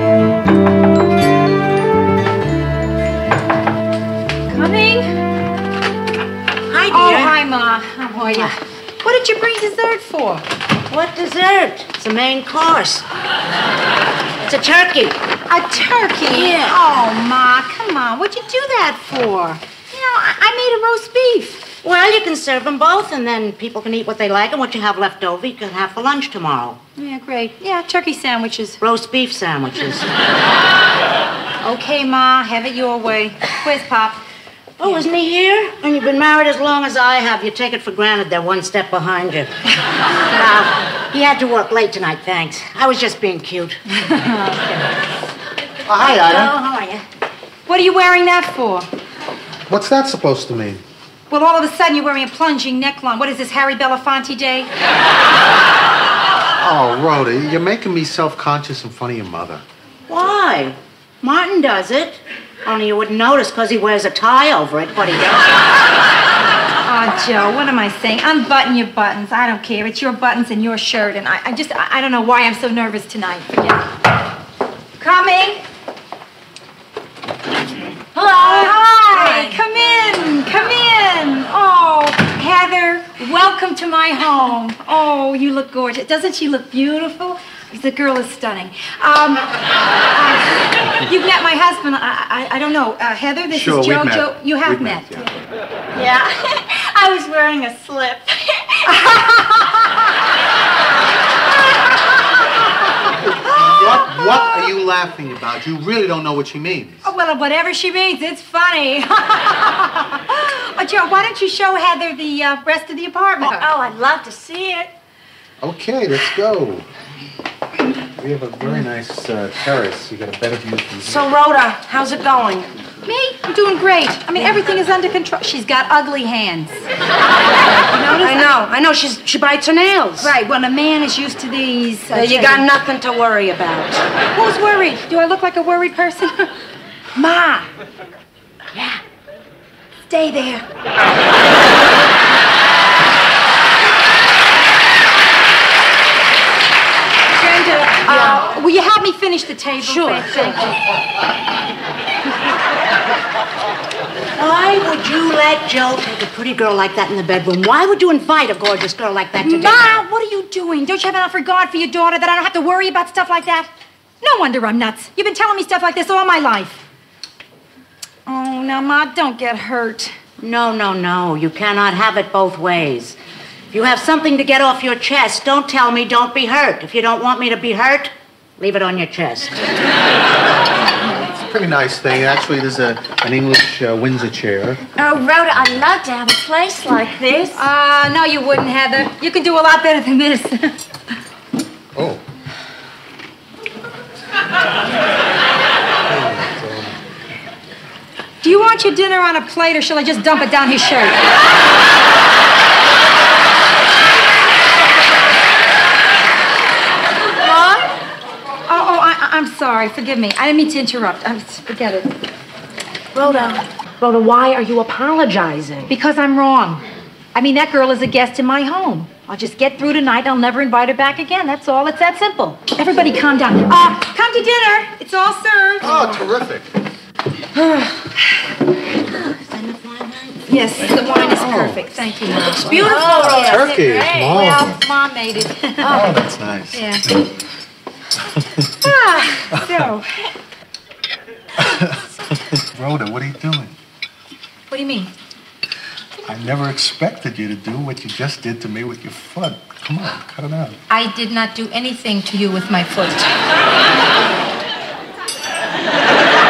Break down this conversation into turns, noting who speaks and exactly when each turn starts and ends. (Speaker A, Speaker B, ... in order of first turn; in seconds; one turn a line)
Speaker A: 4.5-5.1
Speaker B: 6.7-7.3
Speaker A: 6.9-10.4
Speaker B: 10.9-13.0
Speaker B: 14.4-15.2
Speaker A: 15.5-21.7
Speaker B: 16.3-16.8
Speaker B: 21.8-26.8
Speaker A: 26.9-28.8
Speaker B: 28.8-30.1
Speaker A: 31.6-34.2
Speaker B: 34.8-39.5
Speaker B: 40.2-43.8
Speaker A: 44.0-44.9
Speaker C: 45.9-46.5
Speaker B: 45.9-47.0
Speaker A: 47.7-48.9
Speaker C: 49.7-50.8
Speaker A: 51.3-54.7
Speaker C: 56.6-59.6
Speaker B: 60.1-65.5
Speaker A: 66.8-73.9
Speaker A: 75.0-75.6
Speaker D: 78.2-79.6
Speaker A: 78.2-89.5
Speaker A: 90.1-95.2
Speaker C: 93.5-95.4
Speaker E: 95.9-99.1
Speaker A: 98.9-99.8
Speaker A: 103.4-104.0
Speaker C: 103.4-107.0
Speaker A: 107.0-113.7
Speaker E: 113.4-114.9
Speaker C: 115.6-116.8
Speaker C: 118.2-121.2
Speaker D: 121.0-122.7
Speaker A: 123.0-126.8
Speaker A: 127.6-128.5
Speaker D: 128.2-130.3
Speaker A: 130.2-132.7
Speaker D: 132.1-134.0
Speaker A: 134.3-136.5
Speaker A: 137.1-137.7
Speaker D: 138.7-139.0
Speaker A: 140.1-140.6
Speaker A: 147.3-150.7
Speaker B: 154.4-160.0
Speaker A: 159.4-163.7
Speaker A: 164.2-166.8
Speaker A: 168.2-170.2
Speaker B: 170.4-173.2
Speaker B: 173.7-179.5
Speaker C: 181.1-184.8
Speaker E: 184.9-187.7
Speaker A: 187.5-190.8
Speaker C: 191.9-192.2
Speaker C: 196.1-197.0
Speaker A: 198.4-201.2
Speaker E: 207.4-207.9
Speaker A: 208.7-212.1
Speaker D: 213.1-215.9
Speaker A: 215.9-226.0
Speaker C: 225.8-226.7
Speaker B: 229.1-230.4
Speaker A: 230.5-236.1
Speaker C: 231.3-231.8
Speaker D: 232.3-233.7
Speaker C: 232.7-234.8
Speaker C: 235.8-237.3
Speaker A: 236.7-237.1
Speaker A: 238.8-240.3
Speaker C: 241.6-243.7
Speaker A: 244.7-245.1
Speaker C: 246.2-250.8
Speaker A: 250.9-253.4